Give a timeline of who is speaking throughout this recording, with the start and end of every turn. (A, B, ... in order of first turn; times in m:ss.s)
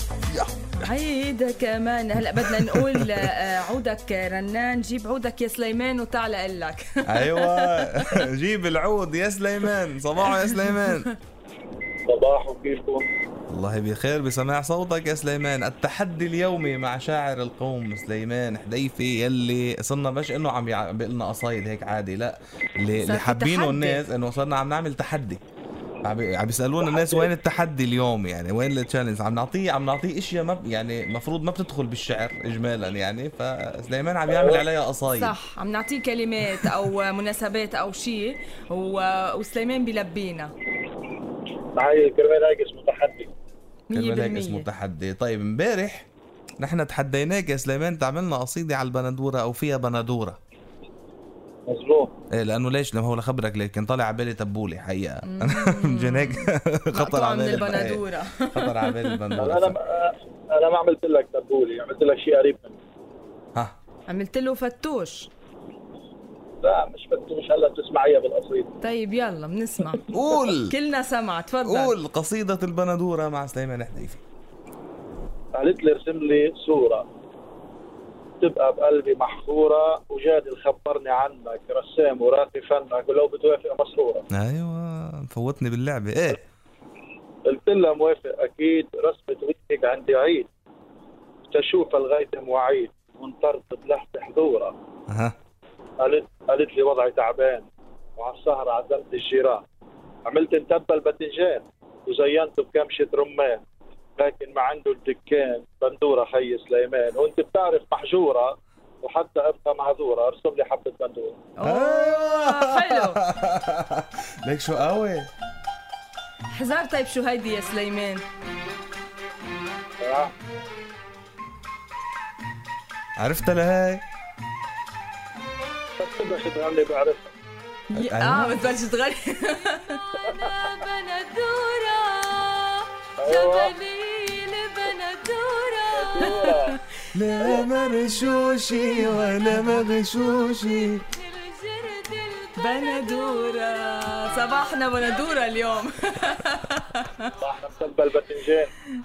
0:00.3-0:00.6 A
0:00.8-0:08.2 B
0:02.4-0:03.1 A
0:07.0-0:11.1 A
0:10.4-0:11.0 B
0:12.1-0:13.1 C
0:13.5-0:25.4 A
0:23.0-0:24.0 B
0:26.0-0:35.4 A
0:26.8-0:27.3 C
0:34.3-0:34.6 C
0:35.1-0:40.5 B
0:41.7-0:43.3 C
0:43.9-0:44.7 B
0:43.9-0:50.4 A
0:51.7-0:52.1 C
0:52.3-0:59.8 A
0:55.2-0:59.4 B
0:59.4-1:02.8 C
1:04.1-1:05.3 B
1:06.6-1:08.7 C
1:08.8-1:12.0 B
1:10.1-1:10.7 A
1:11.6-1:14.2 A
1:15.5-1:17.1 C
1:18.4-1:24.2 C
1:24.3-1:26.4 A
1:27.4-1:30.5 C
1:31.5-1:34.7 C
1:35.1-1:35.3 A
1:36.0-1:39.6 C
1:40.2-1:43.6 C
1:44.2-1:51.4 C
1:51.6-1:53.2 B
1:51.6-1:55.3 A
1:56.5-1:58.2 B
2:00.0-2:00.3 C
2:03.2-2:04.0 A
2:06.0-2:07.3 C
2:07.9-2:16.8 B
2:07.9-2:08.6 A
2:13.2-2:13.7 C
2:15.9-2:16.7 C
2:17.1-2:21.0 A
2:17.4-2:17.7 C
2:21.2-2:27.3 B
2:27.4-2:28.7 C